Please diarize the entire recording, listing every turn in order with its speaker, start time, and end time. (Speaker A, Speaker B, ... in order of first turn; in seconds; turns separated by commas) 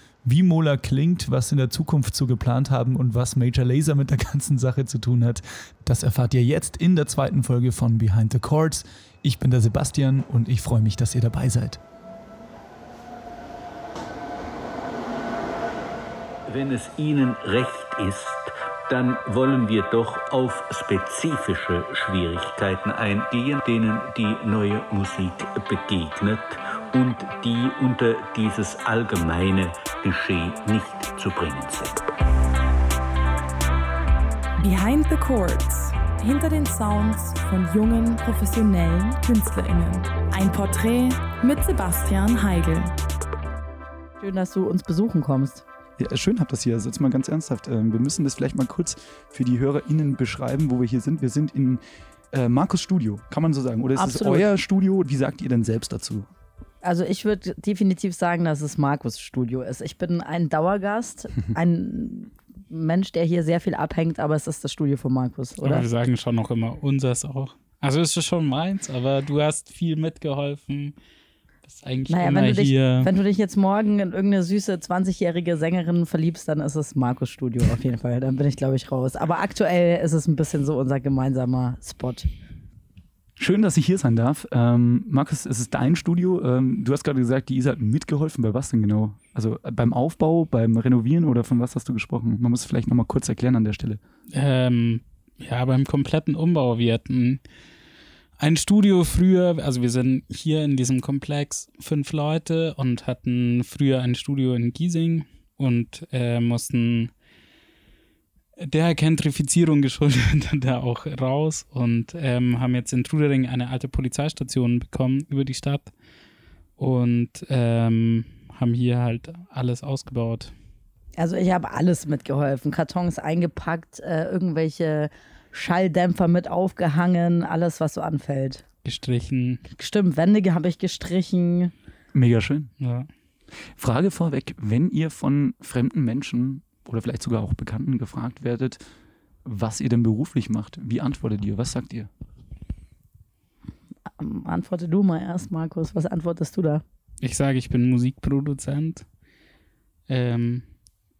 Speaker A: 0.2-11.8, Speaker B: 16.5-32.0, Speaker C: 34.6-42.9, Speaker D: 44.2-45.6, Speaker A: 46.0-51.8, Speaker A: 52.3-56.3, Speaker D: 54.0-54.5, Speaker D: 56.8-65.8, Speaker E: 65.6-70.9, Speaker E: 71.6-73.1, Speaker D: 72.1-82.3, Speaker A: 83.4-94.0, Speaker E: 94.3-97.4, Speaker E: 98.4-107.1, Speaker E: 108.6-115.9, Speaker E: 116.8-120.5, Speaker D: 121.2-128.6, Speaker E: 128.8-129.6, Speaker D: 129.7-131.7, Speaker A: 132.1-132.7, Speaker E: 132.8-133.1, Speaker A: 133.8-138.8, Speaker A: 139.4-142.1, Speaker D: 144.2-146.8, Speaker E: 147.2-149.1, Speaker E: 150.1-150.6